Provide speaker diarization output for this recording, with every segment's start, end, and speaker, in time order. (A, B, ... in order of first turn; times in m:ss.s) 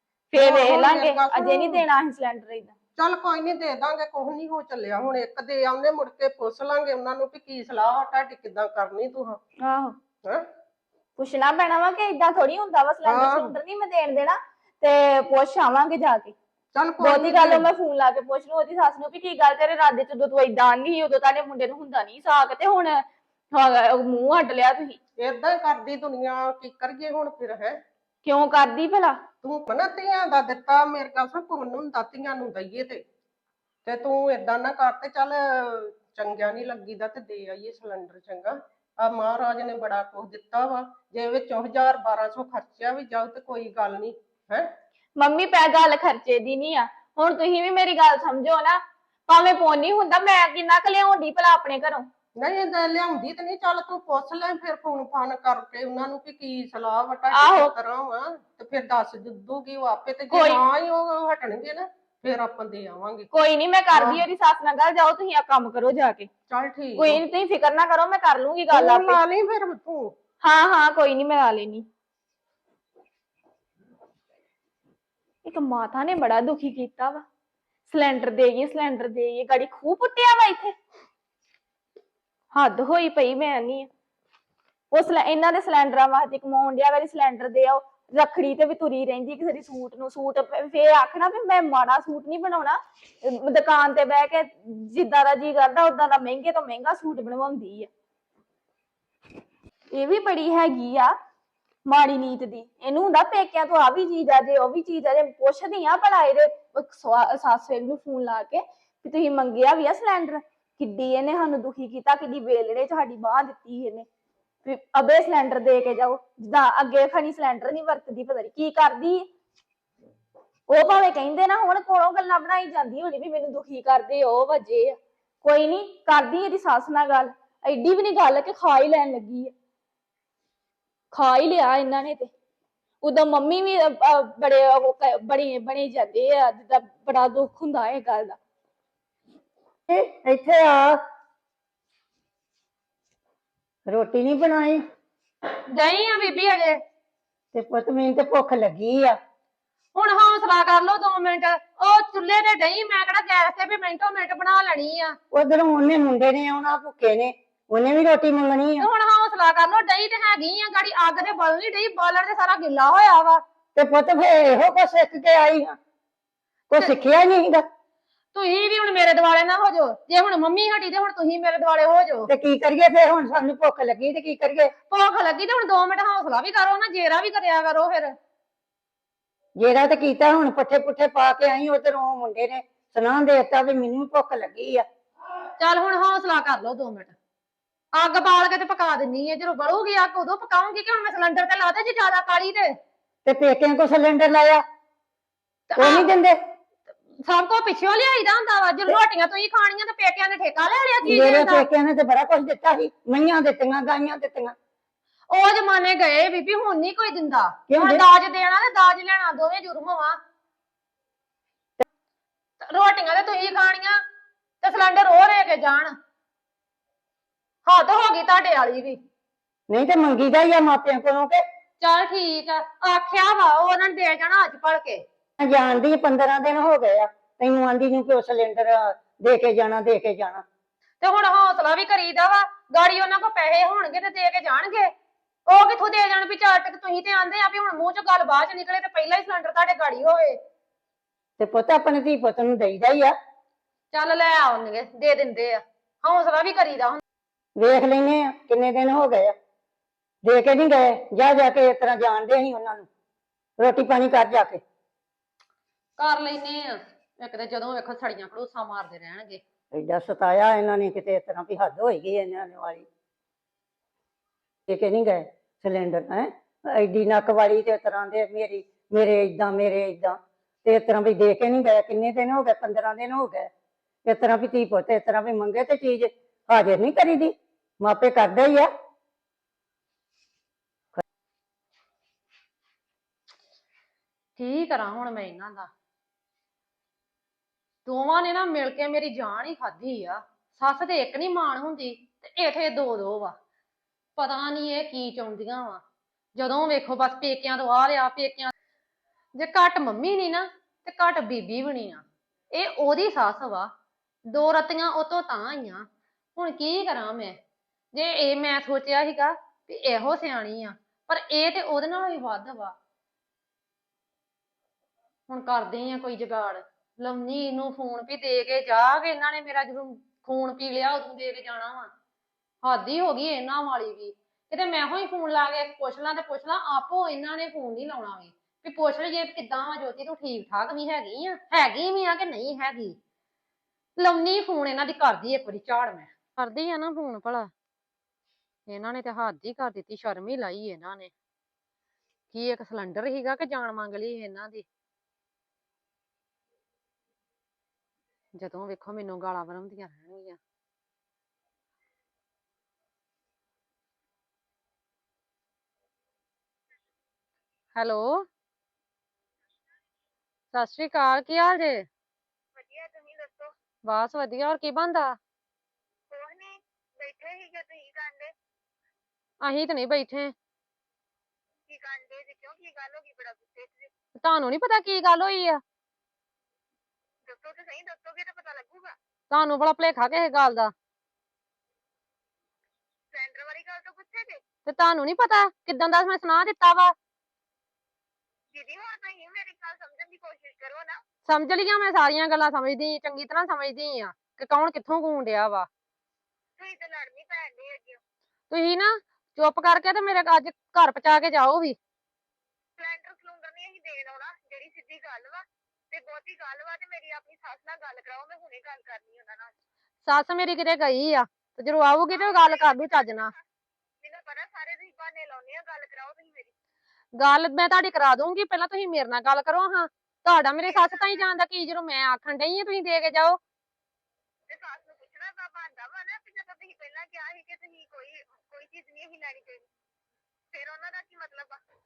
0:00.3-0:02.7 A
0:00.3-0:01.8 B
0:03.0-0:09.4 B
0:09.6-0:10.0 A
0:11.2-0:16.4 A
0:13.0-0:13.6 B
0:16.7-0:17.7 B
0:17.0-0:25.0 A
0:25.2-0:27.8 B
0:28.2-0:29.2 A
0:29.4-0:33.0 B
0:33.8-0:44.7 B
0:45.2-0:52.1 A
0:52.4-1:03.3 B
0:57.3-0:57.7 A
1:00.3-1:00.6 A
1:03.3-1:06.3 A
1:03.9-1:04.3 B
1:06.5-1:07.2 B
1:07.0-1:09.2 A
1:08.7-1:10.1 B
1:10.4-1:11.9 A
1:15.4-1:17.2 A
1:17.9-1:20.8 A
1:22.5-1:23.9 A
1:24.9-1:37.9 A
1:39.9-1:41.1 A
1:41.9-1:54.1 A
1:54.6-1:59.3 A
2:00.7-2:09.5 A
2:11.1-2:12.3 A
2:13.0-2:18.4 A
2:19.9-2:21.0 C
2:23.9-2:24.8 C
2:25.7-2:26.8 D
2:27.5-2:29.2 C
2:30.0-2:35.2 D
2:35.3-2:38.9 C
2:38.8-2:43.4 D
2:43.8-2:45.8 C
2:46.7-2:47.7 C
2:48.3-2:52.3 D
2:52.3-2:54.7 C
2:54.9-2:58.2 D
2:59.6-3:04.9 C
3:05.6-3:07.1 D
3:07.9-3:12.8 D
3:13.3-3:14.6 C
3:15.7-3:16.1 D
3:15.8-3:16.4 C
3:17.2-3:21.7 D
3:21.0-3:24.6 C
3:25.3-3:30.2 D
3:27.7-3:28.1 C
3:32.6-3:34.0 D
3:34.6-3:35.9 D
3:37.7-3:39.0 D
3:39.7-3:41.4 C
3:41.8-3:45.0 D
3:45.4-3:50.4 C
3:51.0-3:54.9 D
3:55.5-4:00.4 D
4:01.4-4:03.2 C
4:03.9-4:07.0 D
4:07.6-4:09.4 C
4:10.2-4:12.9 C
4:13.6-4:14.6 C
4:16.0-4:19.4 D
4:19.7-4:22.9 C
4:24.7-4:33.5 C
4:34.0-4:38.7 C
4:44.4-4:45.7 D
4:47.8-4:53.4 D
4:54.2-4:55.8 D
4:56.4-4:58.5 D
4:59.4-5:03.7 D
5:04.3-5:07.4 D
5:07.9-5:12.7 D
5:15.3-5:21.9 D
5:22.6-5:33.0 D
5:34.0-5:37.5 D
5:38.7-5:41.1 D
5:42.3-5:44.6 D
5:48.4-5:50.4 D
5:57.8-5:58.3 D
6:00.5-6:01.9 D
6:02.6-6:03.5 E
6:03.8-6:05.2 D
6:06.1-6:08.3 E
6:09.4-6:10.3 D
6:11.7-6:13.9 E
6:14.2-6:15.6 D
6:17.3-6:19.0 E
6:19.3-6:20.7 D
6:23.1-6:24.4 E
6:24.7-6:27.0 D
6:28.5-6:31.0 E
6:31.3-6:35.7 D
6:36.6-6:38.0 E
6:38.5-6:41.8 D
6:42.8-6:49.5 E
6:50.0-6:53.3 D
6:52.1-6:53.4 E
6:54.0-6:56.5 E
6:57.2-7:03.4 D
7:00.6-7:01.2 E
7:04.5-7:09.6 E
7:10.5-7:11.6 E